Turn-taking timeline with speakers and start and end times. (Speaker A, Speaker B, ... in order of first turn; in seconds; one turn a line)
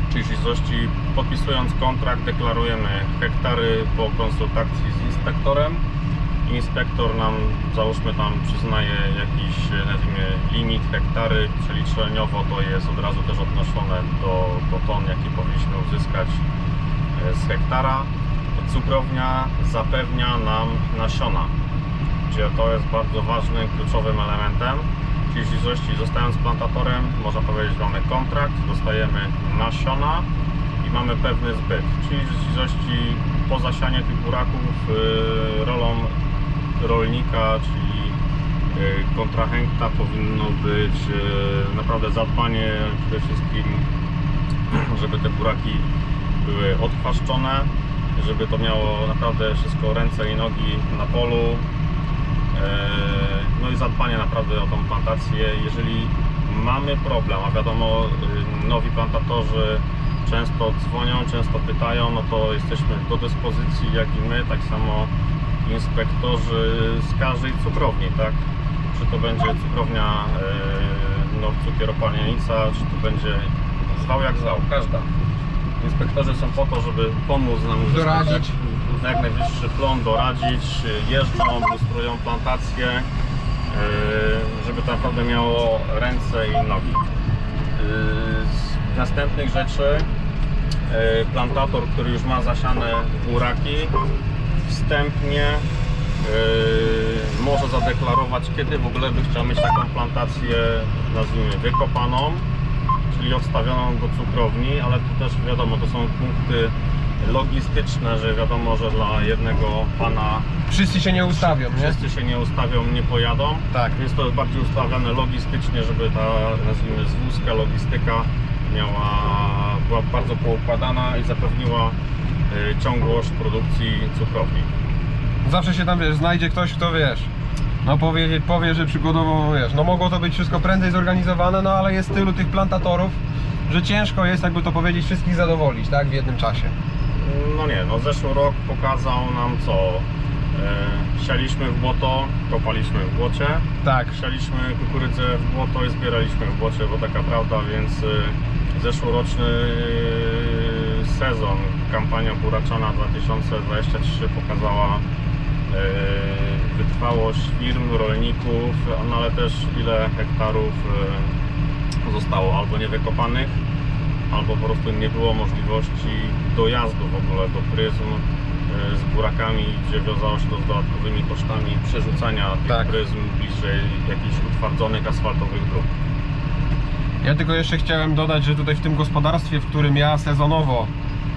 Speaker A: 0.1-5.8
Speaker A: 6.4-16.4
Speaker A: 17.1-21.5
Speaker A: 22.3-30.3
Speaker A: 30.8-36.1
Speaker A: 36.8-38.2
Speaker A: 38.7-43.9
Speaker A: 44.7-45.9
Speaker A: 46.4-51.7
Speaker A: 52.5-65.1
Speaker A: 65.6-75.1
Speaker A: 75.8-83.1
Speaker B: 77.8-78.5
Speaker A: 83.7-87.0
Speaker A: 87.8-90.1
Speaker A: 90.9-94.0
Speaker A: 94.7-95.7
Speaker A: 96.2-102.5
Speaker A: 103.1-110.5
Speaker B: 110.7-112.0
Speaker A: 111.1-122.0
Speaker B: 113.7-114.0
Speaker A: 122.5-124.7
Speaker B: 125.4-127.3
Speaker B: 127.8-136.7
Speaker A: 137.1-155.1
Speaker B: 143.8-144.2
Speaker A: 155.7-161.4
Speaker A: 162.0-163.6
Speaker A: 164.3-175.9
Speaker B: 177.2-180.9